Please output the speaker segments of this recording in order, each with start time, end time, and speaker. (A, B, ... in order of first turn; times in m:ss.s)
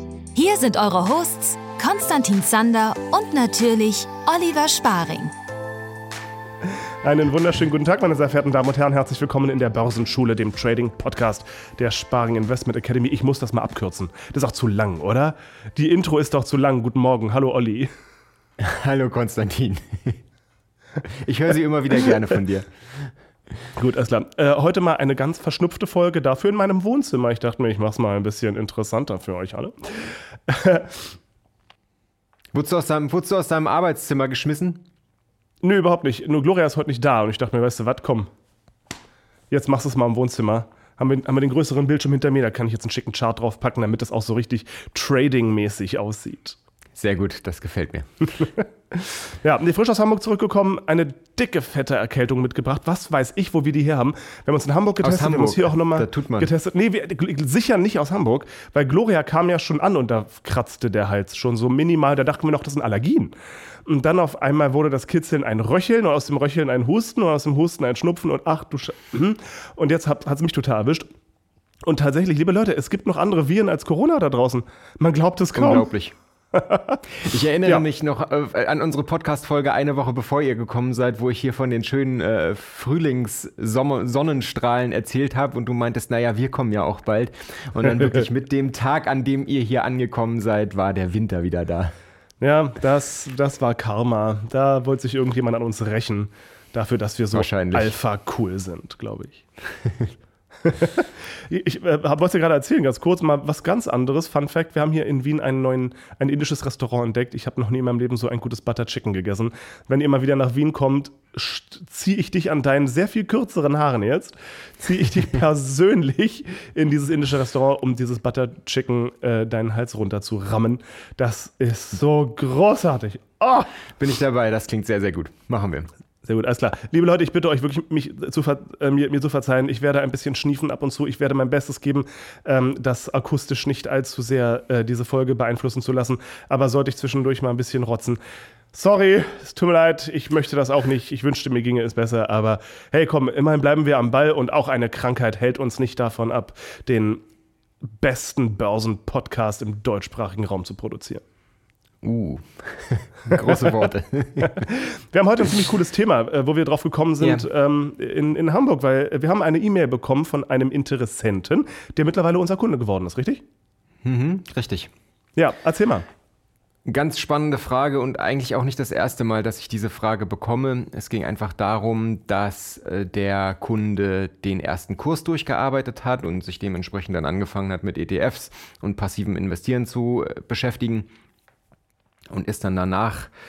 0:00.3-0:05.3 A
0:07.0-0:17.9 B
0:18.6-0:20.2 C
0:21.0-0:22.7 C
0:23.8-0:31.1 B
0:32.5-0:34.8 C
0:35.6-0:38.3 B
0:39.5-0:46.6 B
0:47.0-0:48.5 C
0:49.4-1:03.3 B
0:55.0-0:56.5 C
1:03.8-1:11.1 B
1:11.8-1:15.9 B
1:15.5-1:16.1 C
1:16.5-1:17.0 B
1:17.2-1:31.9 C
1:32.4-1:39.4 B
1:37.3-1:37.9 C
1:40.6-2:03.7 B
2:04.0-2:05.9 C
2:06.2-2:18.2 B
2:18.7-2:27.2 B
2:28.0-2:31.2 B
2:32.0-2:34.6 C
2:34.4-2:43.4 B
2:37.2-2:37.4 C
2:44.0-2:44.9 C
2:45.4-2:46.0 B
2:46.8-3:01.1 C
3:02.3-3:03.3 C